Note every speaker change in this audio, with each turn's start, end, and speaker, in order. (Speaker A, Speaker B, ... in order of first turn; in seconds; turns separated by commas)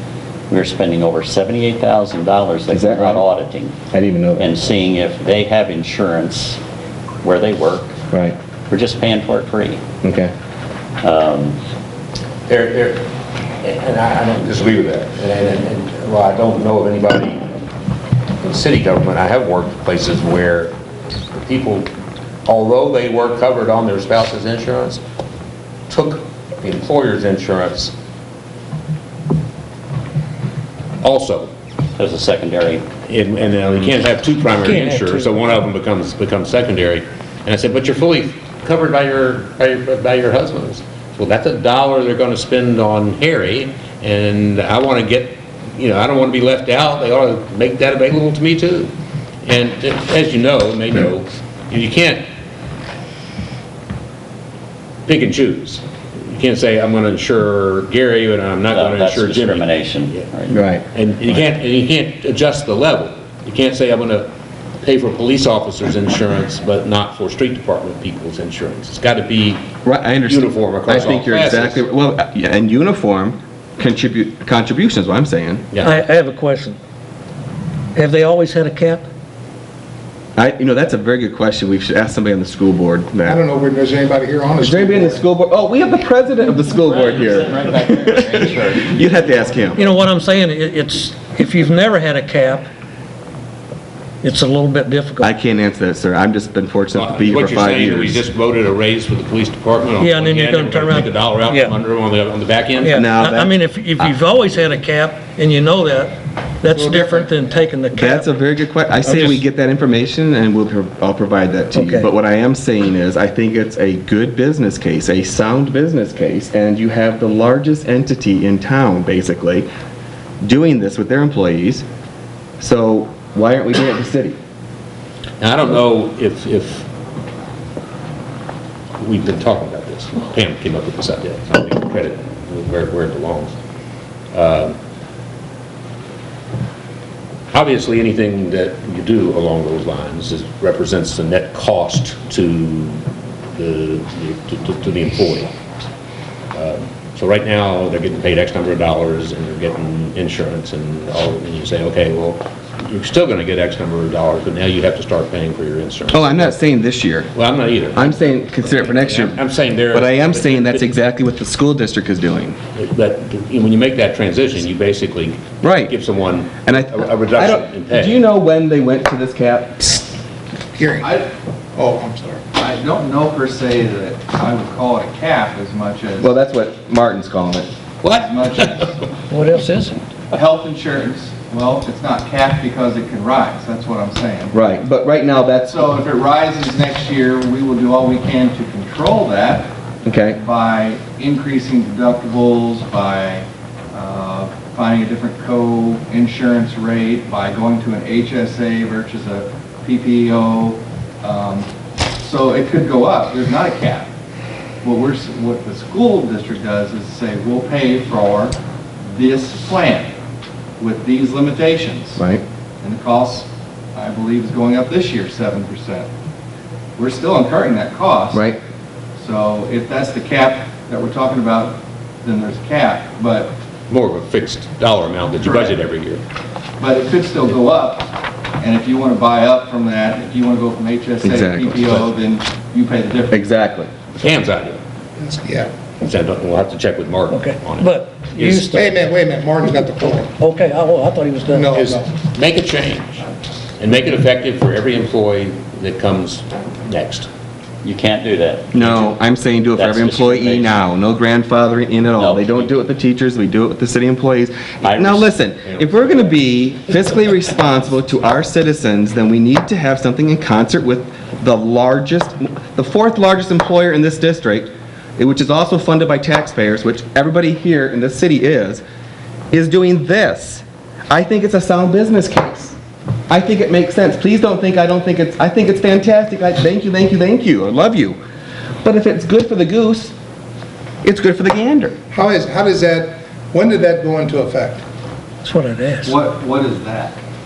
Speaker A: 0.5-3.8, Speaker B: 2.7-3.2, Speaker B: 3.9-4.5, Speaker A: 4.4-6.6, Speaker A: 7.2-8.0, Speaker B: 8.1-8.3, Speaker A: 8.7-9.8, Speaker B: 10.0-10.3, Speaker A: 11.0-11.6, Speaker C: 12.5-13.1, Speaker C: 13.6-17.4, Speaker C: 18.4-20.7, Speaker C: 21.3-21.9, Speaker C: 22.4-25.0, Speaker C: 25.9-27.9, Speaker C: 31.0-31.5, Speaker A: 31.9-32.9, Speaker C: 33.0-48.9, Speaker D: 34.6-35.3, Speaker C: 49.4-52.2, Speaker C: 55.0-60.2, Speaker A: 58.7-60.6, Speaker B: 60.5-60.8, Speaker C: 60.9-64.3, Speaker C: 64.8-69.7, Speaker B: 69.8-75.7, Speaker C: 70.2-71.8, Speaker D: 75.8-76.8, Speaker D: 77.9-79.1, Speaker B: 80.3-83.4, Speaker E: 83.2-85.2, Speaker B: 84.6-89.8, Speaker A: 86.8-89.6, Speaker D: 89.8-92.7, Speaker D: 94.2-95.3, Speaker B: 95.2-98.2, Speaker C: 96.9-103.0, Speaker D: 100.0-101.7, Speaker D: 102.8-108.3, Speaker B: 102.9-104.1, Speaker E: 106.7-107.6, Speaker B: 107.9-119.7, Speaker C: 109.1-109.4, Speaker D: 111.7-112.1, Speaker B: 120.4-121.8, Speaker B: 122.6-124.4, Speaker C: 125.4-126.9, Speaker C: 129.0-133.5, Speaker C: 134.3-134.8, Speaker C: 137.5-145.5, Speaker C: 146.5-156.5, Speaker B: 156.1-157.3, Speaker C: 157.3-160.9, Speaker B: 157.9-162.6, Speaker C: 162.7-168.2, Speaker B: 165.6-165.9, Speaker B: 166.7-170.0, Speaker E: 170.7-171.1, Speaker F: 171.0-171.3, Speaker E: 171.7-172.4, Speaker F: 172.5-176.3, Speaker B: 176.2-177.7, Speaker C: 178.0-179.1, Speaker F: 178.0-179.1, Speaker D: 179.3-180.0, Speaker F: 180.3-184.6, Speaker B: 184.5-185.9, Speaker F: 185.7-201.7, Speaker B: 190.0-190.4, Speaker F: 202.2-204.1, Speaker F: 204.8-208.5, Speaker F: 209.1-210.1, Speaker F: 210.8-212.2, Speaker B: 212.2-212.4, Speaker F: 212.8-216.1, Speaker F: 217.0-218.4, Speaker B: 218.3-218.6, Speaker F: 219.2-223.5, Speaker C: 223.9-226.2, Speaker F: 225.4-225.8, Speaker F: 226.8-233.4, Speaker B: 231.2-232.1, Speaker B: 233.3-233.9, Speaker C: 234.2-234.8, Speaker E: 235.2-235.7, Speaker C: 236.0-238.8, Speaker D: 237.3-239.0, Speaker E: 238.7-240.3, Speaker D: 240.4-241.7, Speaker E: 241.5-242.1, Speaker C: 241.7-243.2, Speaker C: 243.8-247.3, Speaker A: 247.8-248.7, Speaker B: 248.7-268.8, Speaker C: 248.8-249.1, Speaker A: 249.7-250.8, Speaker A: 252.2-252.7, Speaker A: 254.8-256.4, Speaker B: 269.5-272.8, Speaker B: 273.3-278.2, Speaker B: 278.8-280.1, Speaker B: 281.0-281.9, Speaker E: 282.1-284.8, Speaker D: 285.4-286.1, Speaker F: 286.0-287.2